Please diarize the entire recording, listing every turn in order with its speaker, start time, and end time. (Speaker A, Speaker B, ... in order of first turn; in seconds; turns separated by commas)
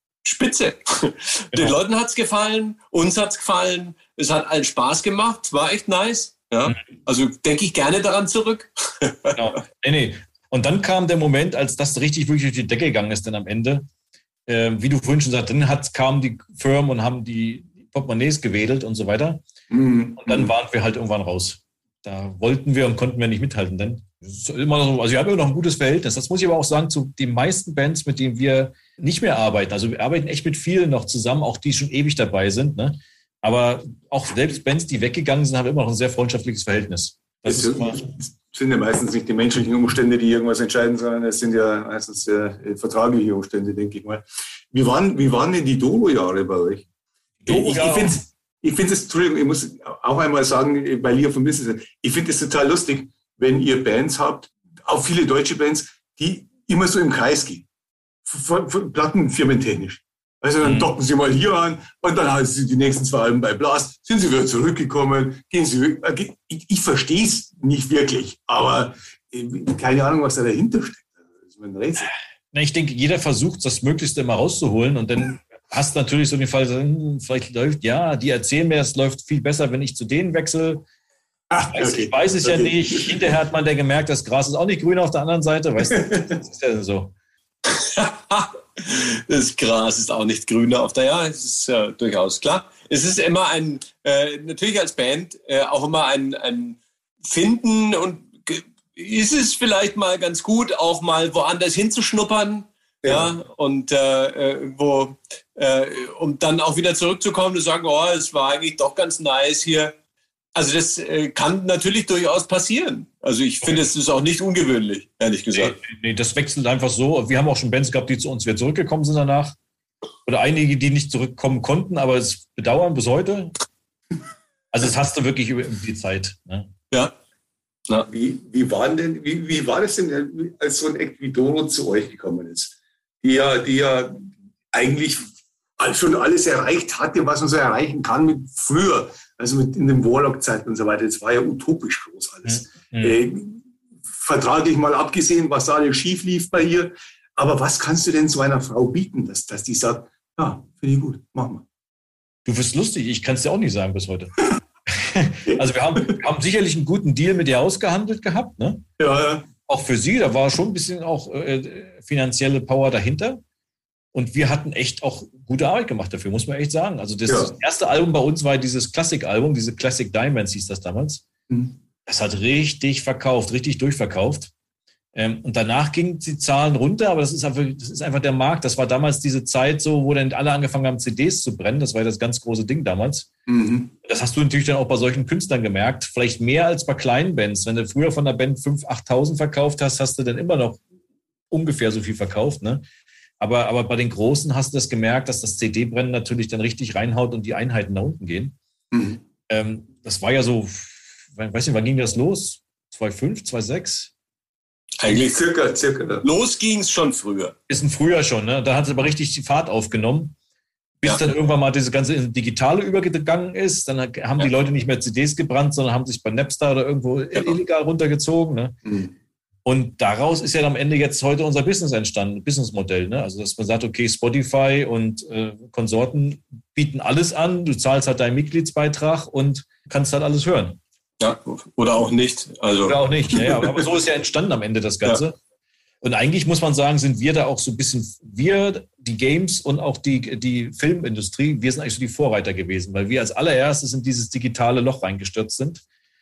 Speaker A: 0.2-9.4, Speaker B: 1.5-1.8, Speaker B: 9.3-13.9, Speaker B: 14.5-19.4, Speaker C: 19.7-20.5, Speaker B: 20.2-38.0, Speaker C: 37.5-46.9, Speaker B: 47.4-48.2, Speaker C: 47.5-57.6, Speaker C: 58.3-72.1, Speaker B: 60.6-60.9, Speaker B: 72.5-80.8, Speaker C: 81.5-83.2, Speaker B: 81.7-87.1, Speaker C: 85.9-86.3, Speaker A: 87.7-109.9, Speaker C: 103.0-103.3, Speaker A: 110.5-115.8, Speaker B: 113.6-113.9, Speaker B: 115.5-119.6, Speaker B: 120.2-123.5, Speaker B: 124.7-126.7, Speaker C: 128.1-151.7, Speaker B: 142.5-143.2, Speaker B: 152.4-154.3, Speaker B: 154.9-158.8, Speaker C: 155.5-156.2, Speaker C: 159.0-159.5, Speaker B: 159.7-163.4, Speaker B: 164.1-171.2, Speaker C: 167.3-167.6, Speaker C: 171.5-171.8, Speaker B: 172.1-174.5, Speaker B: 175.1-183.3, Speaker C: 183.5-183.9, Speaker B: 184.0-190.8, Speaker B: 191.5-192.8, Speaker B: 193.4-198.6, Speaker C: 198.9-199.2, Speaker B: 199.5-204.1, Speaker A: 205.0-205.4, Speaker C: 205.1-206.3, Speaker A: 206.2-207.6, Speaker B: 207.7-210.4, Speaker B: 211.0-218.8, Speaker C: 218.8-219.1, Speaker B: 219.7-230.8, Speaker A: 231.2-233.0, Speaker B: 232.8-235.4, Speaker B: 236.0-245.8